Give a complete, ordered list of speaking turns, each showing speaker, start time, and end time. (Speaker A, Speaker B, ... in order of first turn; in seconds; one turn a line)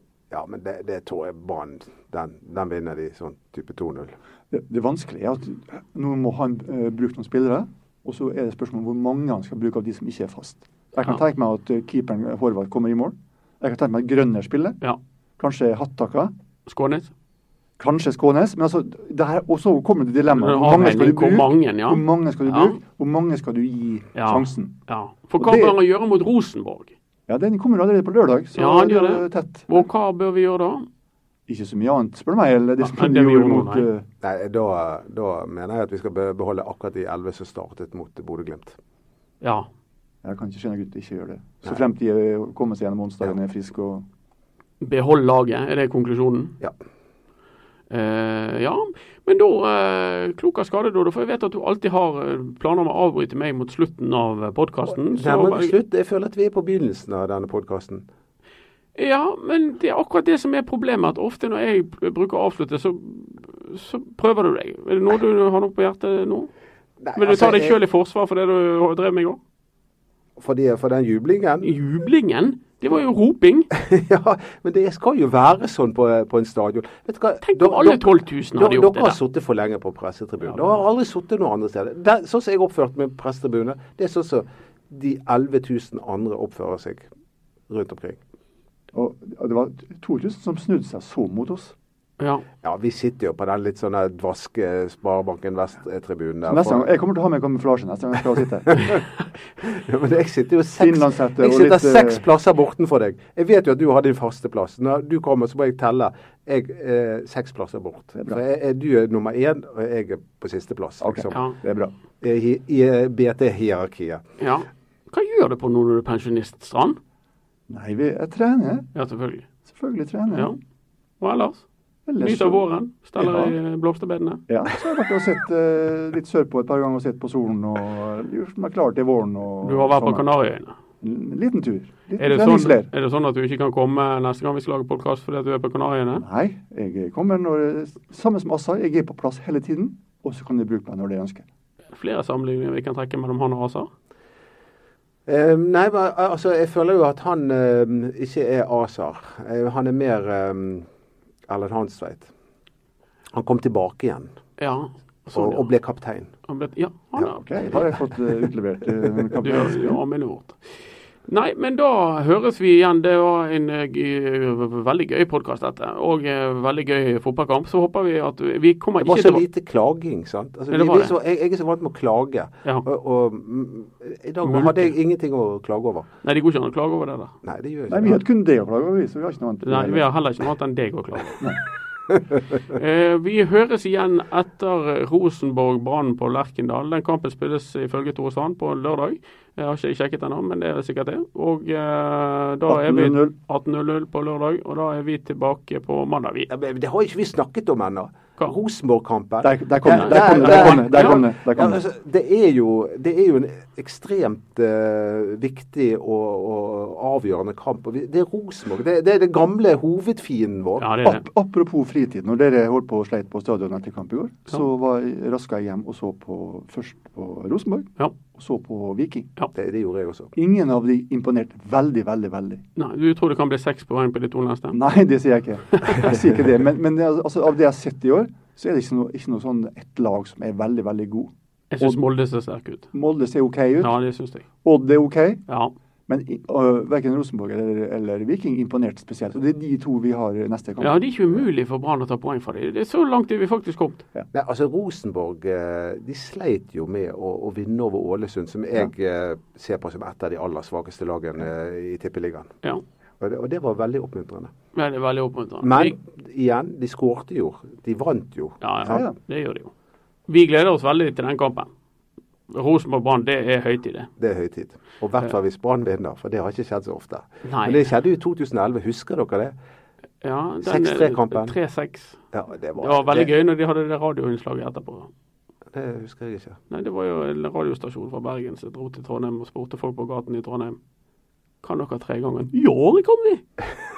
Speaker A: 0.3-4.1
Speaker B: 4.5-14.8
Speaker B: 15.4-16.3
Speaker C: 16.7-17.1
Speaker B: 17.8-24.7
Speaker C: 20.4-22.8
Speaker C: 24.1-26.9
Speaker B: 25.4-25.8
Speaker B: 27.3-29.9
Speaker C: 28.6-30.9
Speaker B: 31.5-34.0
Speaker C: 32.8-33.9
Speaker A: 34.2-38.8
Speaker C: 39.4-39.7
Speaker B: 40.2-44.0
Speaker C: 44.8-46.6
Speaker C: 47.9-55.7
Speaker A: 55.1-58.0
Speaker C: 59.0-66.5
Speaker A: 67.0-67.8
Speaker C: 67.2-69.4
Speaker A: 70.4-71.7
Speaker C: 71.6-73.7
Speaker A: 73.7-87.1
Speaker C: 77.4-79.2
Speaker A: 87.7-88.2
Speaker B: 88.9-91.7
Speaker C: 92.2-92.5
Speaker A: 92.6-96.9
Speaker B: 96.5-98.9
Speaker A: 98.7-99.0
Speaker A: 99.6-111.4
Speaker B: 100.8-102.2
Speaker B: 111.0-111.9
Speaker C: 111.3-111.6
Speaker A: 112.2-114.2
Speaker C: 114.4-117.0
Speaker B: 117.7-118.9
Speaker C: 119.0-119.5
Speaker B: 119.7-120.5
Speaker C: 120.3-120.6
Speaker C: 121.2-121.7
Speaker B: 122.1-122.7
Speaker C: 122.2-124.4
Speaker B: 123.2-123.5
Speaker B: 124.5-130.3
Speaker C: 129.6-130.8
Speaker B: 131.0-132.9
Speaker C: 132.2-136.2
Speaker B: 136.2-141.4
Speaker C: 141.9-143.9
Speaker A: 145.3-150.9
Speaker A: 151.5-152.3
Speaker A: 153.3-154.3
Speaker C: 154.6-155.7
Speaker A: 155.3-156.3
Speaker C: 156.5-157.8
Speaker B: 157.2-160.0
Speaker C: 159.4-160.6
Speaker C: 161.3-169.4
Speaker A: 169.0-176.1
Speaker C: 170.7-171.1
Speaker C: 174.4-174.9
Speaker C: 176.2-177.3
Speaker A: 177.4-178.2
Speaker B: 177.9-180.1
Speaker C: 179.6-181.4
Speaker C: 182.7-196.5
Speaker B: 192.7-193.3
Speaker A: 196.5-210.9
Speaker B: 199.4-201.8
Speaker C: 199.9-201.3
Speaker C: 210.8-211.2
Speaker B: 211.0-219.3
Speaker A: 219.5-220.3
Speaker B: 220.4-222.6
Speaker C: 222.8-224.8
Speaker B: 224.7-232.0
Speaker C: 225.8-226.1
Speaker C: 231.7-232.9
Speaker B: 232.9-233.9
Speaker C: 233.8-234.4
Speaker B: 234.6-235.4
Speaker C: 235.5-235.7
Speaker B: 236.1-241.0
Speaker C: 240.8-244.0
Speaker A: 244.3-252.5
Speaker A: 253.2-254.5
Speaker C: 254.7-256.0
Speaker A: 255.6-259.0
Speaker C: 258.6-259.7
Speaker B: 258.9-259.1
Speaker C: 260.3-261.7
Speaker C: 262.5-264.1
Speaker A: 264.2-269.5
Speaker C: 267.4-267.9
Speaker C: 270.2-272.2
Speaker A: 270.6-271.6
Speaker A: 272.3-273.3
Speaker C: 272.8-275.1
Speaker A: 275.7-276.6
Speaker C: 276.7-280.8
Speaker C: 281.6-283.4